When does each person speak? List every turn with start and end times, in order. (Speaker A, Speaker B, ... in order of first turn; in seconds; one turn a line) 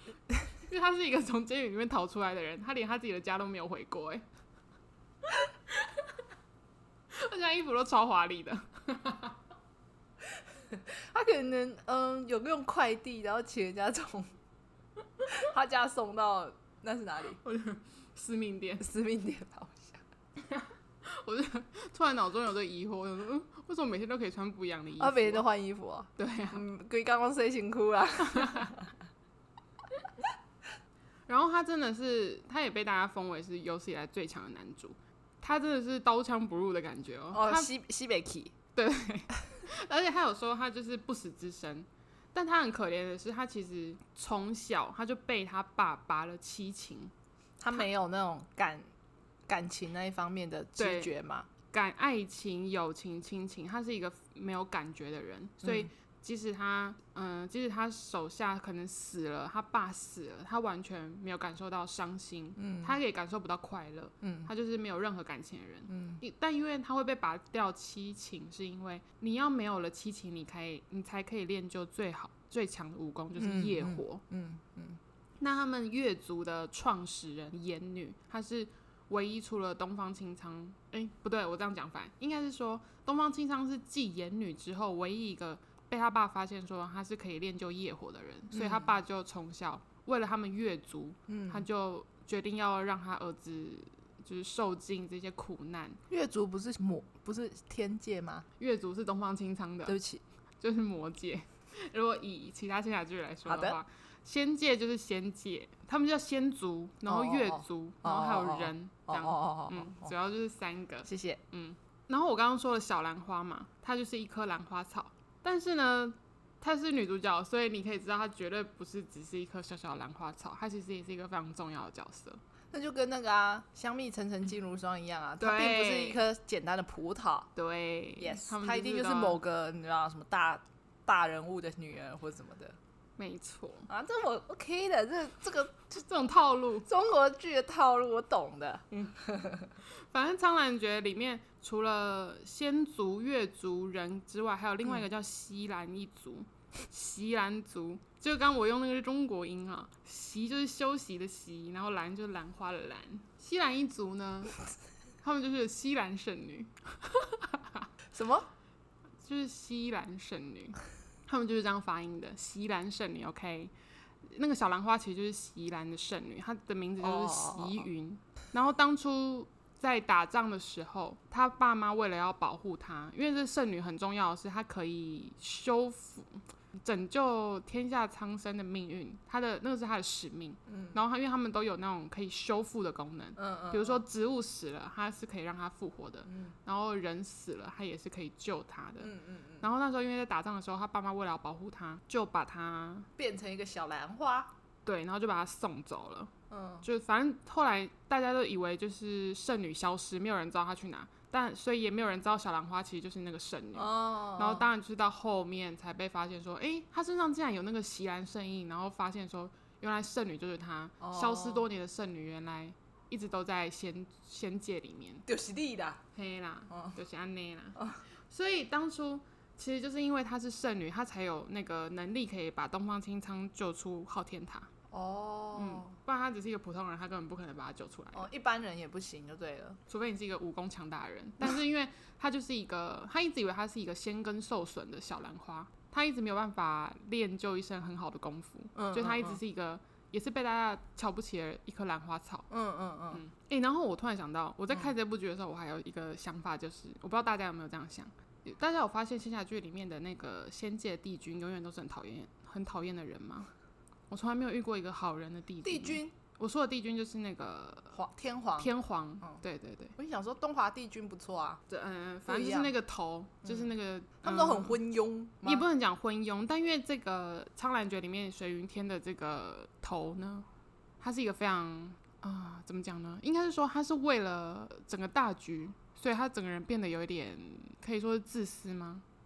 Speaker A: 0.5-4.2
Speaker A: 5.3-6.0
Speaker A: 7.1-9.4
Speaker B: 10.4-14.3
Speaker B: 15.3-17.4
Speaker A: 17.4-18.9
Speaker B: 18.8-20.0
Speaker A: 20.5-25.4
Speaker B: 25.0-28.9
Speaker A: 26.2-26.6
Speaker A: 28.2-28.7
Speaker A: 31.3-37.7
Speaker B: 37.3-38.5
Speaker A: 38.8-47.1
Speaker B: 47.6-48.9
Speaker B: 49.5-51.5
Speaker A: 50.8-51.1
Speaker A: 51.7-74.2
Speaker B: 55.6-55.9
Speaker B: 62.6-63.0
Speaker B: 64.2-64.5
Speaker B: 65.9-66.2
Speaker B: 73.4-75.0
Speaker A: 75.4-96.0
Speaker B: 88.5-88.9
Speaker B: 91.3-91.7
Speaker B: 96.1-98.5
Speaker A: 98.6-100.0
Speaker B: 99.9-100.2
Speaker A: 100.6-122.4
Speaker B: 103.5-103.8
Speaker B: 107.1-110.1
Speaker B: 111.0-111.4
Speaker B: 122.7-127.5
Speaker A: 125.4-126.2
Speaker A: 127.6-129.4
Speaker B: 128.2-132.8
Speaker A: 133.2-133.9
Speaker B: 133.9-136.0
Speaker A: 136.0-136.9
Speaker B: 136.9-139.7
Speaker A: 139.9-154.6
Speaker A: 155.2-157.9
Speaker B: 158.1-158.5
Speaker A: 159.2-163.7
Speaker A: 164.2-193.1
Speaker B: 167.0-167.9
Speaker B: 180.7-181.0
Speaker B: 183.4-184.0
Speaker B: 186.3-186.6
Speaker B: 189.0-189.7
Speaker B: 193.2-194.5
Speaker A: 194.9-196.3
Speaker B: 196.5-196.9
Speaker A: 196.8-215.2
Speaker B: 203.8-204.7
Speaker B: 211.0-211.7
Speaker B: 215.3-216.0
Speaker A: 216.2-224.7
Speaker B: 224.9-225.9
Speaker A: 225.6-228.3
Speaker B: 228.1-229.8
Speaker A: 229.9-242.5
Speaker B: 238.8-239.4
Speaker B: 242.5-243.2
Speaker A: 243.1-253.5
Speaker A: 254.1-258.0
Speaker B: 255.6-256.1
Speaker B: 257.9-258.7
Speaker A: 258.6-260.0
Speaker B: 260.0-261.6
Speaker A: 261.7-264.8
Speaker B: 262.3-262.7
Speaker B: 263.4-263.7
Speaker B: 264.2-265.7
Speaker A: 265.4-270.5
Speaker A: 271.0-279.0